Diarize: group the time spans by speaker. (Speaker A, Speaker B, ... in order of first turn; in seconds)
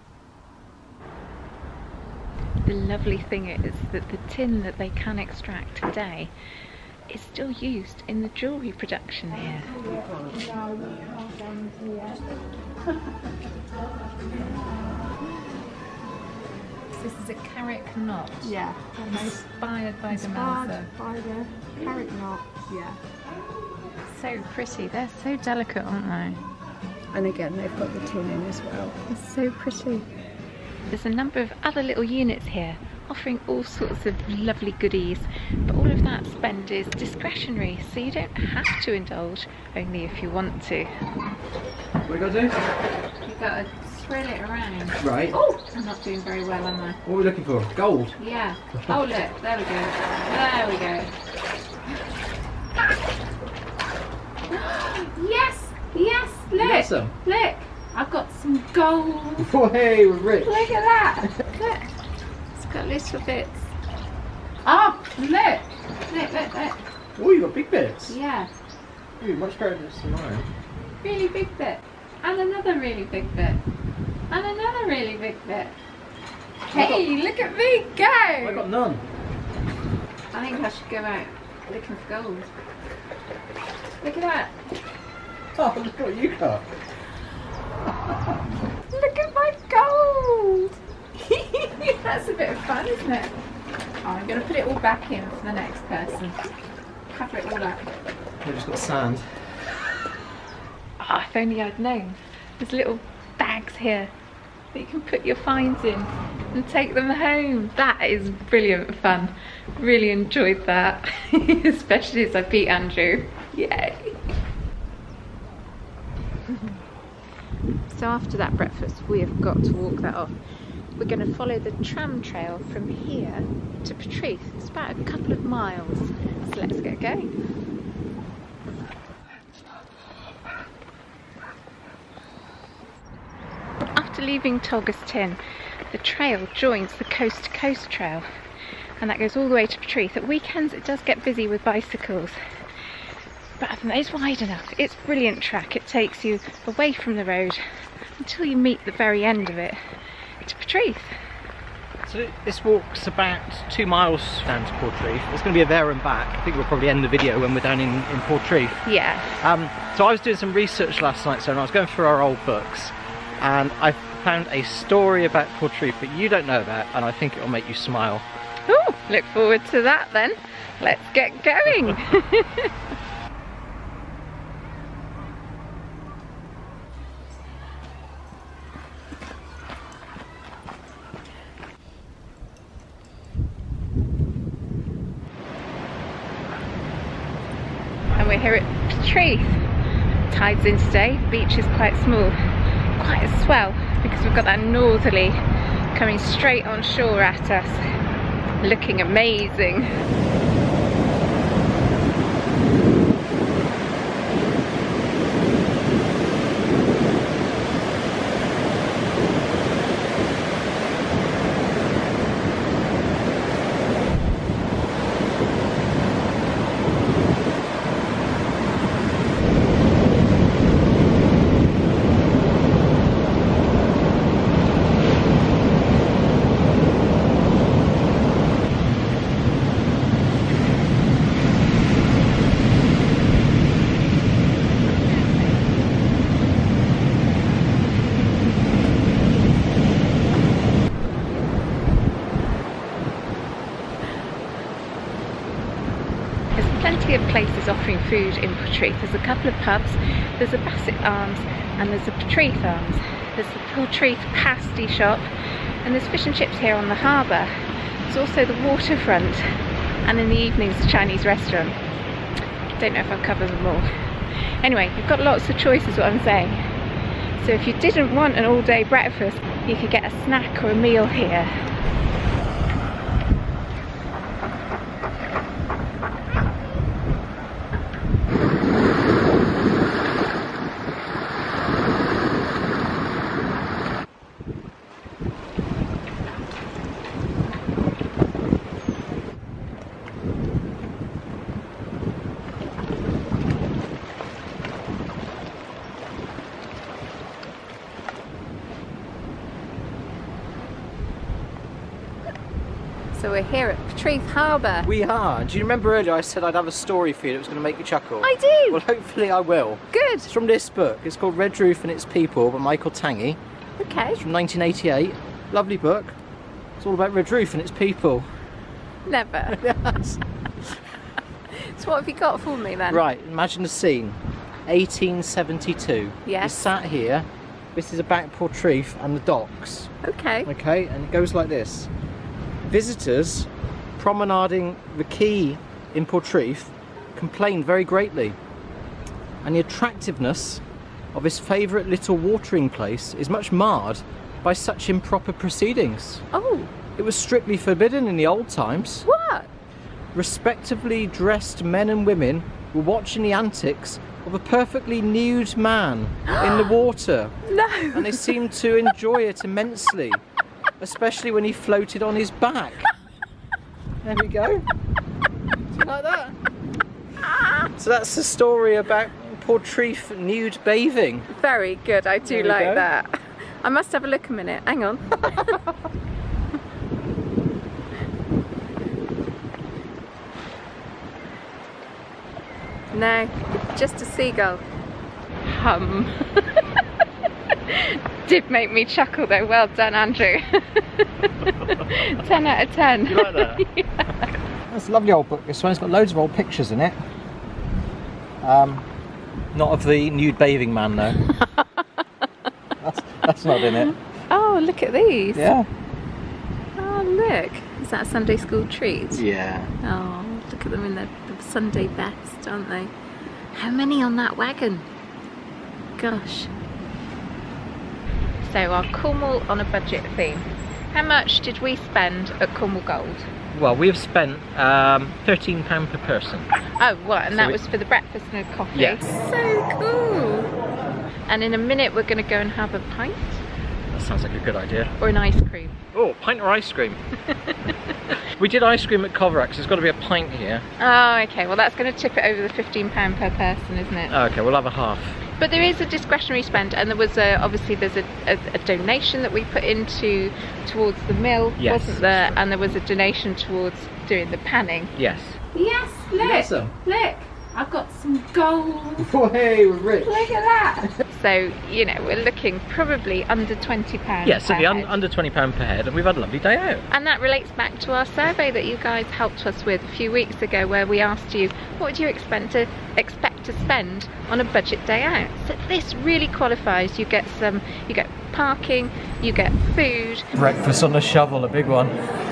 Speaker A: 2.6-6.3, 7.1-9.8, 16.9-20.9, 24.1-26.4, 28.8-30.1, 30.9-40.9, 43.2-47.0, 48.2-51.1, 54.5-59.5, 60.4-61.9, 62.5-63.7, 64.6-66.8, 68.1-68.5, 71.0-73.6, 74.3-75.8, 76.7-78.7, 80.3-82.5, 84.0-84.6, 88.9-93.4, 94.0-96.4, 97.1-97.9, 101.0-104.1, 104.7-114.3, 116.5-116.8, 117.9-120.4, 121.0-127.3, 133.9-135.4, 135.9-138.2, 139.0-142.4, 143.6-147.6, 148.2-149.8, 150.4-151.1, 158.8-159.3, 168.7-172.7, 188.2-189.7, 190.3-192.4, 193.0-195.4, 195.9-197.8, 198.6-199.9, 246.6-255.3, 255.8-257.5, 258.1-259.5, 260.0-261.8, 262.8-266.7, 267.4-271.5, 303.1-304.9, 308.2-308.8, 309.9-310.3, 313.8-314.2, 319.0-319.6, 321.5-323.0, 326.2-326.7, 330.0-330.5, 346.3-346.7, 349.1-349.5, 356.3-356.6, 357.5-358.3, 367.3-367.6, 371.3-375.6, 382.9-384.6, 385.5-386.8, 387.6-394.3, 401.3-401.8, 403.5-405.5, 406.8-409.2, 409.8-412.9, 413.5-414.9, 416.0-416.5, 418.4-423.3, 426.8-430.5, 431.3-433.4, 435.0-435.8, 437.3-437.8, 440.8-444.1, 445.4-454.9, 455.5-459.1, 460.0-464.9, 466.9-480.3
Speaker B: 10.4-12.1, 18.5-19.1, 20.7-22.9, 27.1-28.9
Speaker C: 42.1-42.6, 45.0-45.4, 47.0-48.1, 56.6-57.1, 59.4-60.7, 67.2-68.2, 69.2-70.5, 76.7-77.0, 78.4-79.0, 85.5-86.7, 98.4-99.5, 152.1-158.9, 159.4-168.2, 304.8-313.4, 314.2-316.2, 316.8-318.3, 319.5-320.2, 322.9-329.9, 330.5-331.9, 332.7-338.4, 339.4-346.2, 347.0-349.1, 350.1-357.3, 357.9-360.2, 360.8-362.9, 364.0-364.6, 365.7-366.4, 367.8-371.3, 372.2-372.9, 393.1-393.6, 394.7-397.0, 398.4-398.9, 399.5-401.2, 402.8-403.9, 405.4-405.7, 409.1-409.7, 423.5-426.5, 427.3-427.6, 428.7-429.0, 433.9-434.9, 435.9-437.0, 438.1-440.7, 444.1-445.2, 451.6-452.4, 455.0-455.4, 456.2-456.7, 459.0-460.3, 464.2-466.9, 480.4-481.9